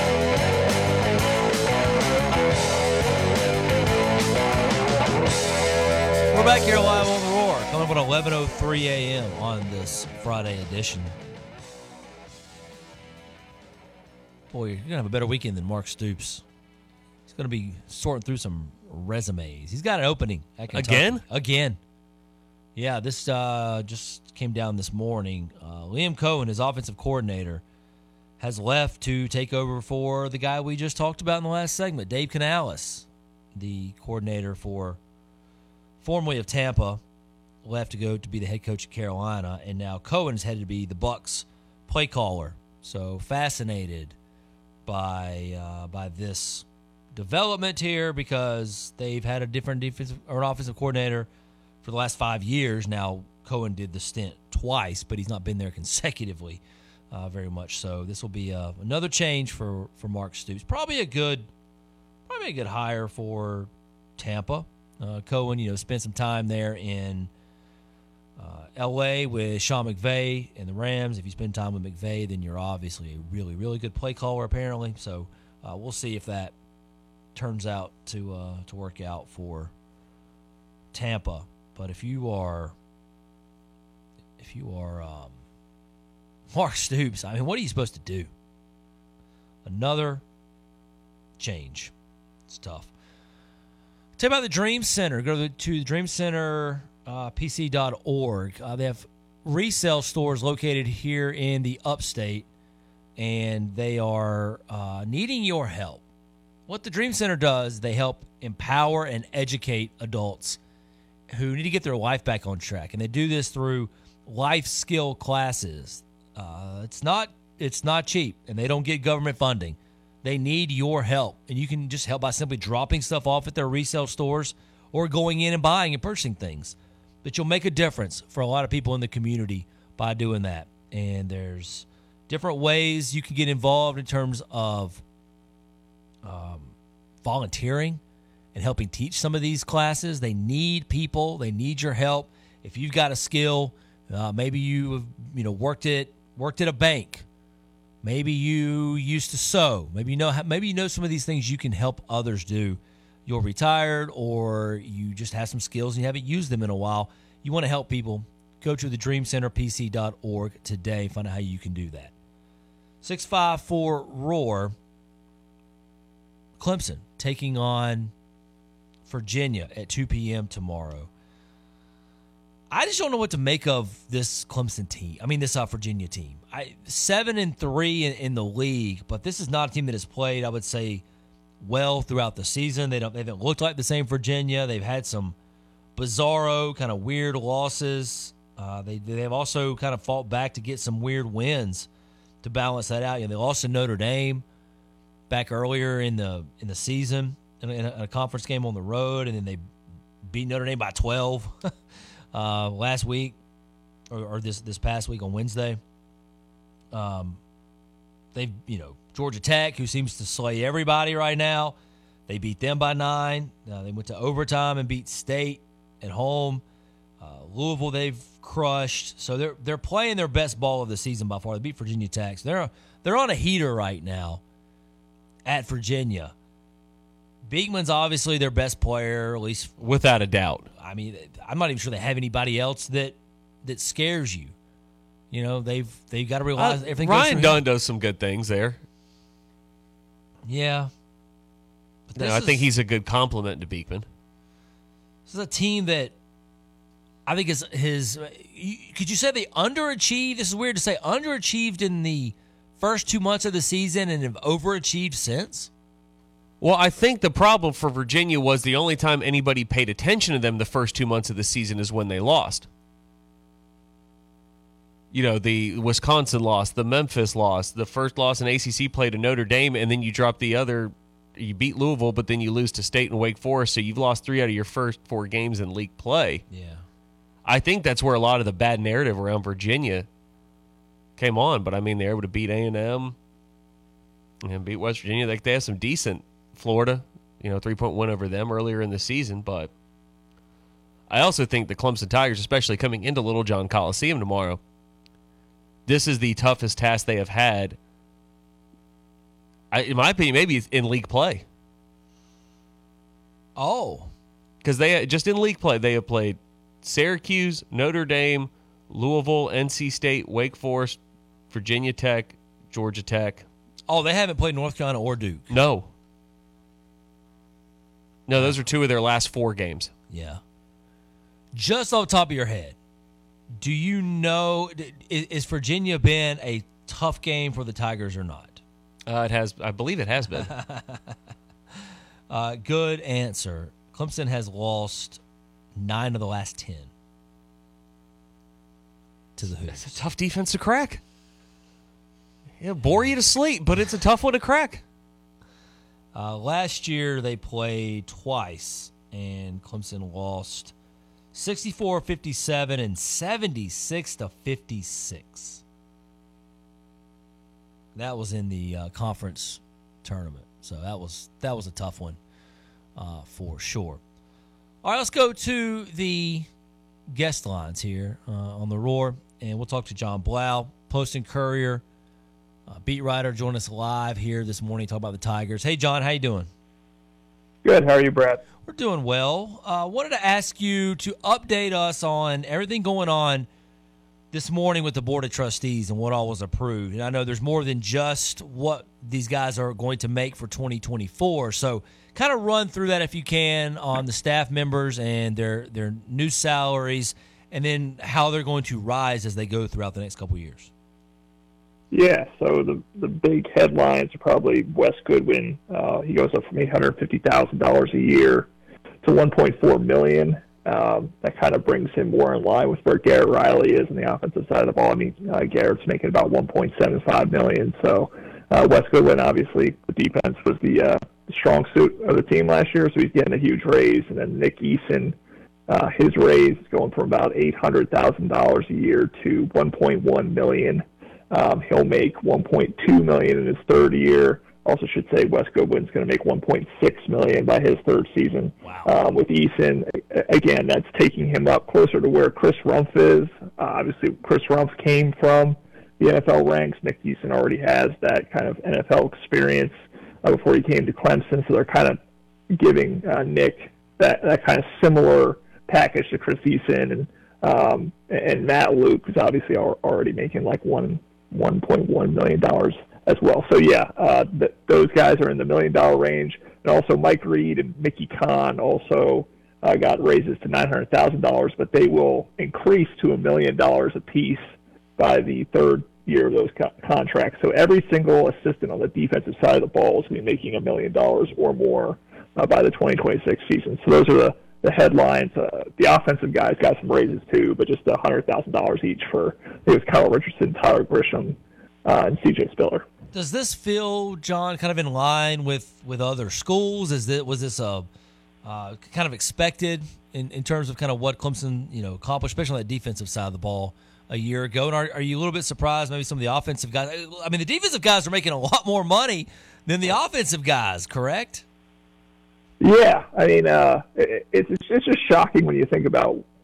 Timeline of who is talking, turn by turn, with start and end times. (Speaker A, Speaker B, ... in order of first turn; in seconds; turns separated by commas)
Speaker A: 6.3-11.1, Speaker A: 14.5-16.4, Speaker A: 17.3-21.8, Speaker B: 20.7-21.2, Speaker A: 22.8-27.6, Speaker A: 28.4-35.0, Speaker A: 36.0-37.0, Speaker A: 37.6-44.1, Speaker A: 44.9-51.3, Speaker A: 51.8-61.5, Speaker A: 62.3-67.3, Speaker A: 68.4-76.5, Speaker A: 77.3-79.7, Speaker A: 80.9-82.8, Speaker A: 84.4-85.4, Speaker A: 86.5-88.3, Speaker A: 89.7-90.2, Speaker A: 91.4-91.9, Speaker A: 92.5-92.9, Speaker A: 94.2-102.5, Speaker A: 103.2-106.0, Speaker A: 106.7-110.6, Speaker A: 111.3-135.0, Speaker A: 136.2-138.0, Speaker A: 138.6-147.3, Speaker A: 148.0-162.1, Speaker A: 163.0-164.7, Speaker A: 166.6-168.1, Speaker A: 169.1-171.1, Speaker A: 172.7-181.0, Speaker A: 181.6-185.4, Speaker A: 186.0-191.9, Speaker A: 192.4-194.4, Speaker A: 195.3-199.6, Speaker A: 200.3-201.7, Speaker A: 202.3-203.4, Speaker A: 204.1-205.8, Speaker A: 206.9-207.4, Speaker A: 208.3-211.8, Speaker A: 212.3-216.6, Speaker A: 217.2-224.4, Speaker A: 225.5-226.3, Speaker A: 227.5-229.8, Speaker B: 229.8-230.7, Speaker A: 230.8-234.5, Speaker A: 235.3-237.6, Speaker B: 236.6-238.8, Speaker A: 240.5-240.9, Speaker A: 242.1-242.7, Speaker B: 242.2-244.1, Speaker A: 245.3-246.1, Speaker A: 247.3-255.7, Speaker B: 256.6-262.7, Speaker B: 265.1-276.4, Speaker A: 276.5-276.8, Speaker B: 277.4-280.1, Speaker B: 281.2-283.2, Speaker B: 284.4-289.7, Speaker B: 291.1-294.6, Speaker B: 295.9-297.8, Speaker B: 299.7-301.4, Speaker A: 303.6-304.1, Speaker B: 304.6-311.0, Speaker B: 311.5-313.5, Speaker A: 313.9-315.5, Speaker B: 315.5-315.9, Speaker B: 318.3-319.9, Speaker A: 320.1-320.4, Speaker A: 321.5-322.8, Speaker A: 323.6-328.6, Speaker B: 329.1-330.5, Speaker A: 330.4-331.1, Speaker A: 332.3-335.2, Speaker A: 335.8-336.9, Speaker A: 339.4-340.0, Speaker B: 339.7-341.0, Speaker B: 342.6-344.8, Speaker A: 346.1-350.7, Speaker A: 351.3-355.6, Speaker A: 358.0-362.2, Speaker A: 363.0-364.0, Speaker A: 364.8-366.5, Speaker A: 367.1-371.8, Speaker A: 372.7-376.5, Speaker C: 377.6-378.4, Speaker A: 378.7-383.5, Speaker A: 384.3-400.7, Speaker C: 401.9-408.5, Speaker C: 409.0-425.2, Speaker C: 425.7-452.0, Speaker A: 438.6-438.9, Speaker C: 452.5-474.4, Speaker C: 475.0-492.9, Speaker A: 493.1-497.9, Speaker A: 498.4-511.4, Speaker C: 512.6-516.2